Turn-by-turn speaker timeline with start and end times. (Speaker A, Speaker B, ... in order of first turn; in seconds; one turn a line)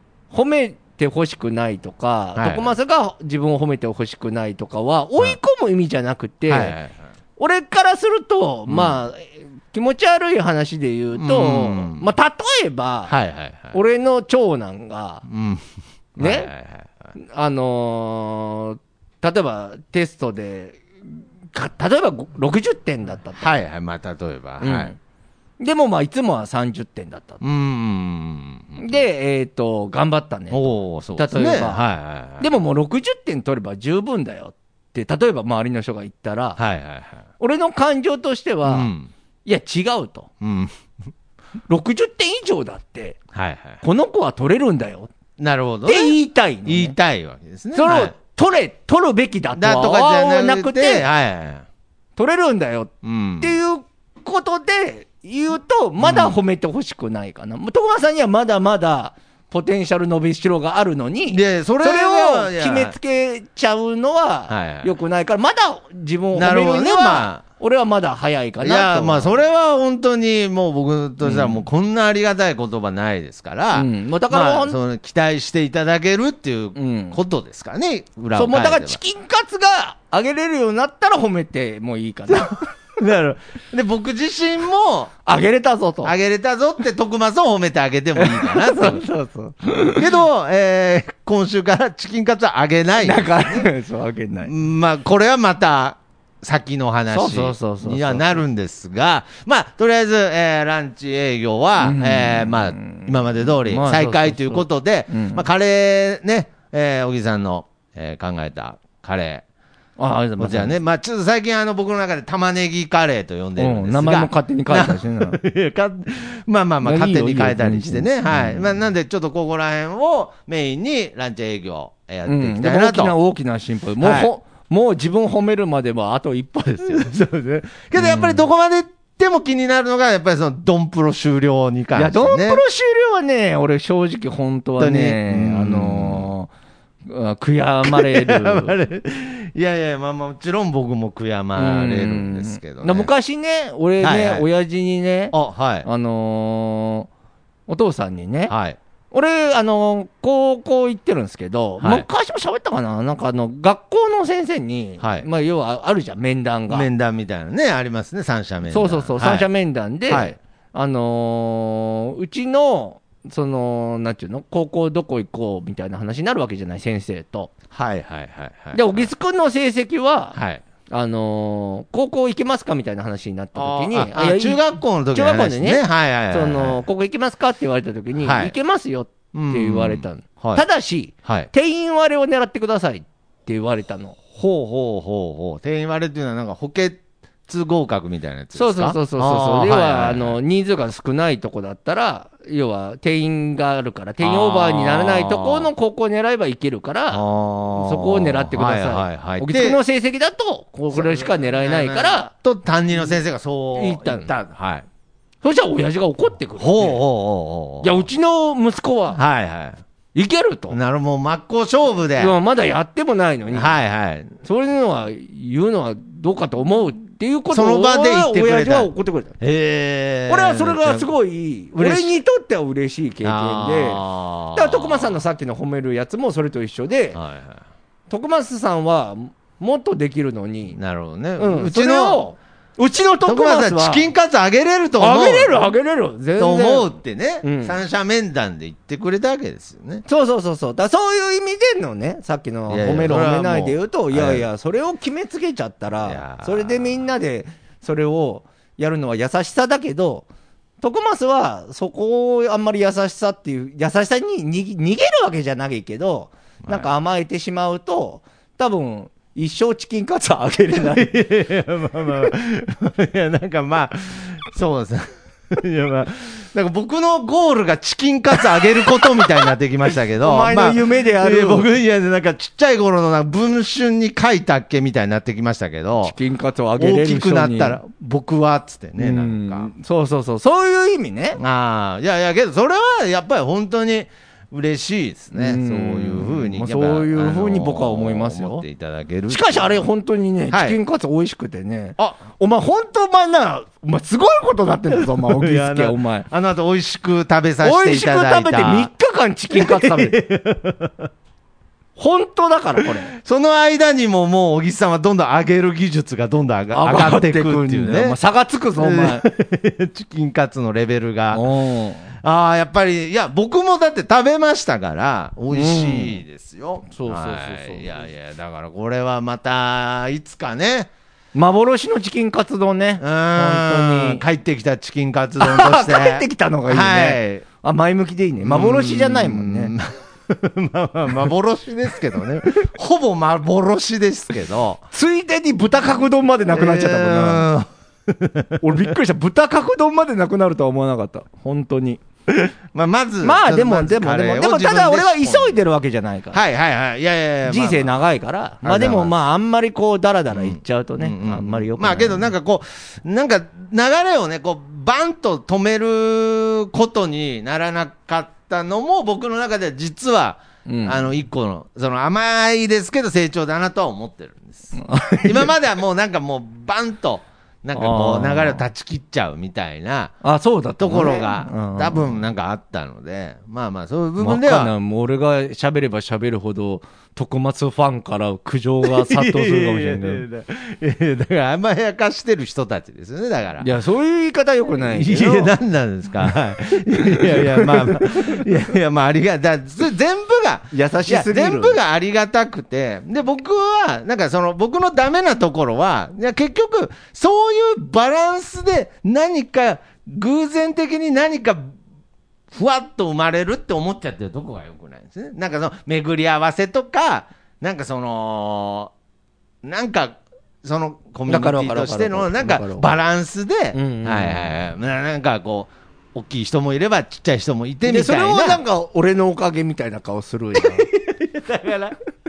Speaker A: 0.3-6.8
Speaker B: 2.4-2.7
Speaker B: 6.5-7.0
Speaker A: 7.4-13.1
Speaker B: 8.7-9.0
Speaker B: 11.2-12.1
Speaker B: 13.1-13.8
Speaker A: 13.7-15.2
Speaker B: 15.3-15.6
Speaker B: 16.2-16.9
Speaker A: 16.2-16.5
Speaker A: 17.2-20.8
Speaker A: 21.5-23.6
Speaker B: 23.4-24.9
Speaker A: 24.6-25.0
Speaker A: 25.6-27.4
Speaker B: 27.4-29.0
Speaker A: 28.8-31.8
Speaker B: 30.5-32.5
Speaker A: 32.4-36.6
Speaker B: 36.6-37.2
Speaker A: 37.4-38.9
Speaker B: 38.6-39.1
Speaker A: 39.4-40.3
Speaker B: 40.4-40.7
Speaker A: 41.7-43.2
Speaker B: 43.3-43.8
Speaker A: 43.8-45.1
Speaker B: 45.4-48.1
Speaker A: 45.9-47.0
Speaker A: 47.7-51.1
Speaker B: 49.5-51.7
Speaker A: 52.2-69.4
Speaker B: 53.0-53.6
Speaker B: 56.0-56.4
Speaker B: 61.3-62.9
Speaker B: 64.5-65.0
Speaker B: 66.3-67.4
Speaker B: 68.6-79.0
Speaker A: 71.2-71.6
Speaker A: 73.7-74.8
Speaker A: 76.8-77.2
Speaker A: 78.3-82.7
Speaker B: 82.3-85.1
Speaker A: 85.2-86.1
Speaker B: 86.0-89.0
Speaker A: 88.2-90.1
Speaker B: 90.0-93.7
Speaker A: 93.0-94.5
Speaker B: 94.4-109.4
Speaker A: 97.1-98.4
Speaker A: 101.8-105.4
Speaker A: 110.0-110.8
Speaker B: 110.4-123.2
Speaker A: 113.6-115.4
Speaker A: 116.8-118.7
Speaker A: 122.2-127.1
Speaker B: 124.0-124.3
Speaker B: 126.8-132.6
Speaker A: 128.0-128.4
Speaker A: 131.9-136.5
Speaker B: 134.8-136.3
Speaker A: 137.1-138.8
Speaker B: 137.8-143.1
Speaker A: 141.6-147.1
Speaker B: 144.0-144.4
Speaker B: 145.3-145.9
Speaker A: 147.7-148.5
Speaker B: 148.5-148.8
Speaker A: 149.1-156.9
Speaker B: 151.8-152.1
Speaker B: 155.0-155.2
Speaker B: 156.7-159.5
Speaker A: 158.7-167.5
Speaker B: 160.1-160.4
Speaker B: 167.7-169.1
Speaker A: 168.7-170.4
Speaker B: 170.3-170.6
Speaker A: 170.9-184.2
Speaker B: 173.6-176.8
Speaker B: 178.2-178.6
Speaker B: 179.3-180.6
Speaker B: 181.2-181.5
Speaker B: 184.3-190.4
Speaker A: 188.5-197.2
Speaker B: 194.2-195.7
Speaker B: 197.1-199.8
Speaker A: 197.8-202.3
Speaker B: 200.9-204.9
Speaker A: 203.8-204.3
Speaker A: 205.4-207.0
Speaker B: 206.6-208.0
Speaker A: 207.8-209.2
Speaker B: 209.2-209.8
Speaker A: 210.1-210.8
Speaker B: 210.7-212.3
Speaker A: 212.2-213.7
Speaker B: 213.5-214.3
Speaker A: 214.4-219.3
Speaker B: 217.5-221.1
Speaker A: 220.3-227.2
Speaker B: 221.8-222.1
Speaker B: 223.2-225.2
Speaker B: 227.1-227.6
Speaker A: 228.1-230.8
Speaker B: 230.8-232.2
Speaker A: 231.4-234.1
Speaker B: 233.2-235.7
Speaker A: 235.0-237.8
Speaker B: 236.4-240.0
Speaker A: 240.1-250.2
Speaker B: 242.7-244.4
Speaker B: 246.0-247.0
Speaker A: 250.8-261.1
Speaker B: 256.6-256.9
Speaker B: 260.8-276.1
Speaker A: 270.2-271.6
Speaker A: 276.0-277.8
Speaker B: 276.8-279.7
Speaker A: 279.0-281.4
Speaker B: 281.4-289.8
Speaker A: 285.3-288.6
Speaker A: 289.3-296.3
Speaker B: 290.5-290.8
Speaker B: 294.9-298.9
Speaker A: 297.6-300.2
Speaker B: 299.5-301.1
Speaker A: 302.0-303.1
Speaker B: 303.1-308.2
Speaker A: 306.7-309.2
Speaker B: 308.8-311.4
Speaker A: 311.3-312.1
Speaker B: 312.2-320.9
Speaker A: 315.5-316.2
Speaker A: 316.9-318.0
Speaker A: 321.4-324.2
Speaker B: 323.0-327.4
Speaker A: 325.4-329.7
Speaker B: 328.4-334.8
Speaker A: 334.9-337.5
Speaker B: 336.5-338.9
Speaker A: 338.6-342.0
Speaker B: 342.7-345.6
Speaker A: 343.2-346.4
Speaker B: 346.3-347.9
Speaker A: 347.5-352.3
Speaker B: 348.6-349.1
Speaker B: 350.3-370.1
Speaker A: 360.6-361.1
Speaker A: 364.8-365.5
Speaker A: 367.7-368.6
Speaker A: 370.2-372.2
Speaker B: 370.8-374.7
Speaker A: 374.2-380.2
Speaker B: 378.8-383.7
Speaker A: 383.6-385.5
Speaker B: 384.8-401.8
Speaker A: 386.9-388.4
Speaker A: 390.7-391.8
Speaker B: 402.5-408.9
Speaker B: 409.6-418.6
Speaker A: 411.3-412.9
Speaker A: 413.7-414.5
Speaker A: 417.8-420.9
Speaker B: 420.6-422.0